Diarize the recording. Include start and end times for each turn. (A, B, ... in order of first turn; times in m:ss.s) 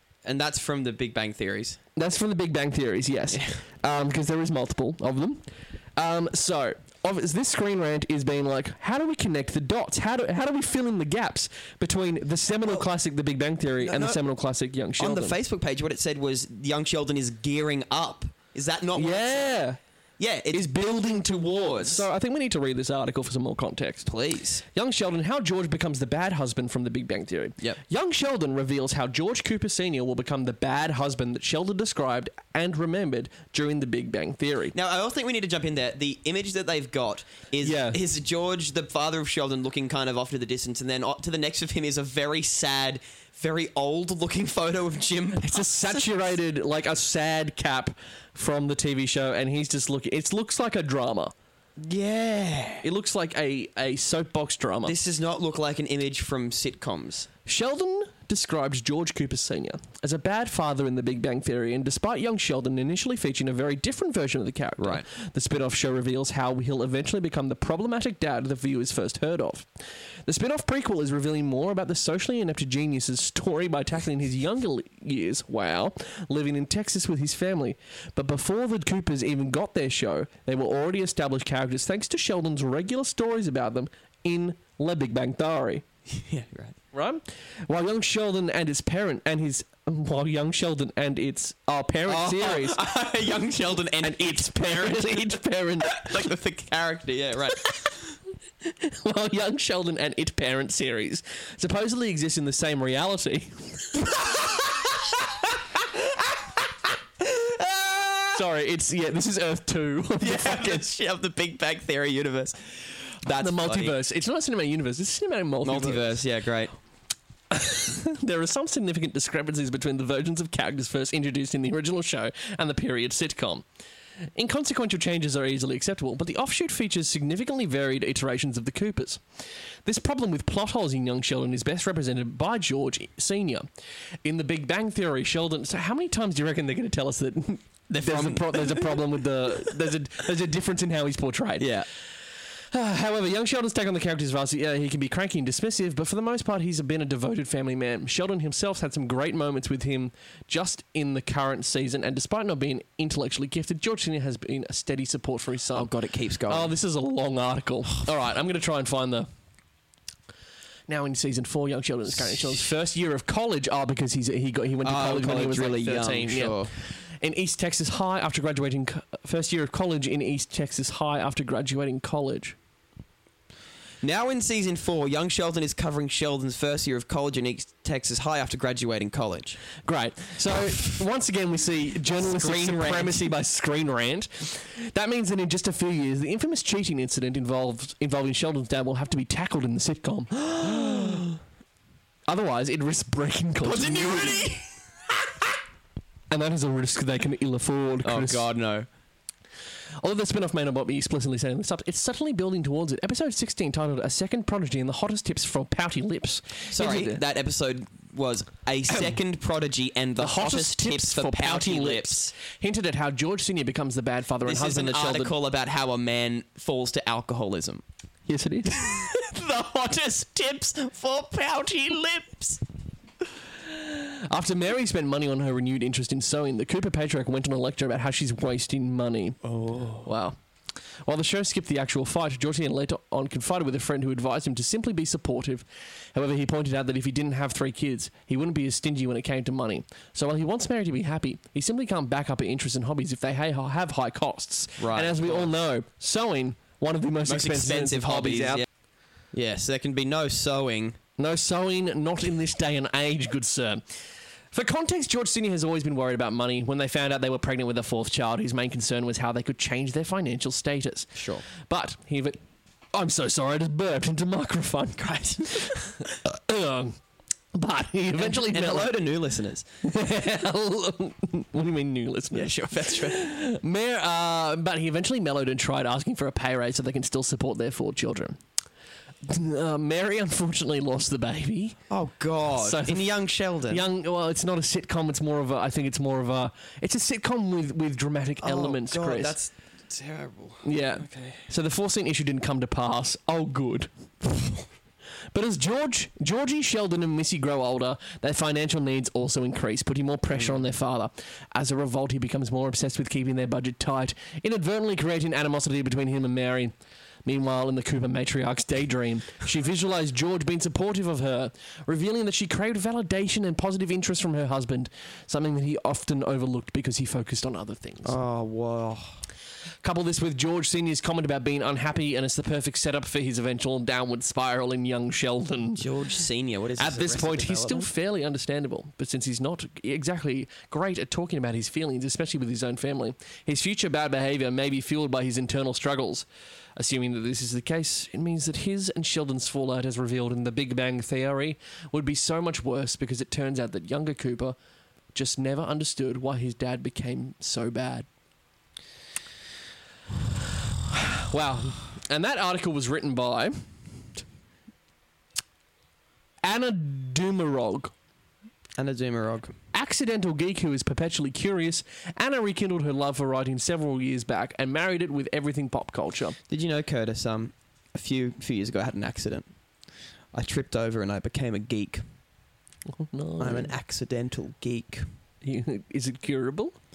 0:00.2-0:01.8 A
0:02.0-0:05.4 B
0:03.3-0:03.6 A
0:06.0-0:15.4 B
0:13.8-0:14.2 A
0:15.0-0:19.6 A
0:19.0-0:19.8 B
0:20.2-0:22.1 A
0:20.5-0:24.1 B
0:24.1-0:24.6 A
0:24.7-0:34.7 B
0:34.7-0:46.3 A
0:37.6-0:38.0 B
0:45.4-0:51.3 B
0:51.8-0:52.8 A
0:52.8-0:54.9 B
0:54.8-0:57.3 A
0:57.5-1:09.7 B
1:04.8-1:05.0 A
1:10.2-1:25.8 B
1:26.1-1:26.8 A
1:26.9-1:32.8 B
1:32.1-1:38.0 A
1:34.0-1:36.1 B
1:38.8-1:44.3 B
1:47.4-1:48.4 A
1:48.3-1:50.8 B
1:50.2-1:53.9 A
1:53.3-1:56.2 B
1:55.6-1:56.7 A
1:57.5-2:03.6 B
2:04.3-2:09.2 B
2:09.8-2:13.7 B
2:14.2-2:21.7 B
2:17.9-2:19.7 A
2:21.6-2:21.9 A
2:22.7-2:35.9 B
2:35.7-2:36.7 A
2:36.5-2:39.3 B
2:40.9-2:52.6 B
2:44.8-2:46.7 A
2:54.0-2:59.7 A
2:59.8-3:11.4 B
3:02.2-3:03.3 A
3:12.3-3:14.5 B
3:13.6-3:14.7 A
3:16.3-3:18.4 B
3:18.0-3:18.9 A
3:20.0-3:27.2 B
3:26.7-3:32.3 A
3:28.9-3:29.2 B
3:30.2-3:35.3 B
3:34.4-3:37.8 A
3:38.3-3:38.9 B
3:38.7-3:42.6 A
3:43.6-3:49.4 B
3:49.4-3:50.1 A
3:50.0-3:50.4 B
3:51.0-4:08.6 B
4:04.8-4:05.5 A
4:07.3-4:08.7 A
4:09.3-4:11.0 A
4:11.2-4:22.4 B
4:21.1-4:21.4 A
4:22.9-4:27.0 B
4:25.0-4:26.2 A
4:27.5-4:29.0 B
4:28.2-4:29.6 A
4:29.8-4:38.4 B
4:32.3-4:33.2 A
4:39.2-4:41.8 B
4:41.9-4:43.8 A
4:42.5-4:43.1 B
4:43.7-4:49.3 B
4:48.4-4:51.5 A
4:50.6-4:53.9 B
4:55.3-5:06.7 B
5:00.3-5:00.6 A
5:07.2-5:18.2 B
5:18.0-5:19.2 A
5:19.8-5:25.8 B
5:25.8-5:27.9 A
5:26.8-5:44.6 B
5:45.1-5:48.1 B
5:51.1-5:53.7 B
5:56.4-5:57.9 B
5:58.8-5:59.6 A
5:59.7-6:06.4 B
6:06.5-6:09.5 A
6:10.3-6:12.0 A
6:12.9-6:13.7 B
6:13.4-6:15.1 A
6:15.4-6:16.7 B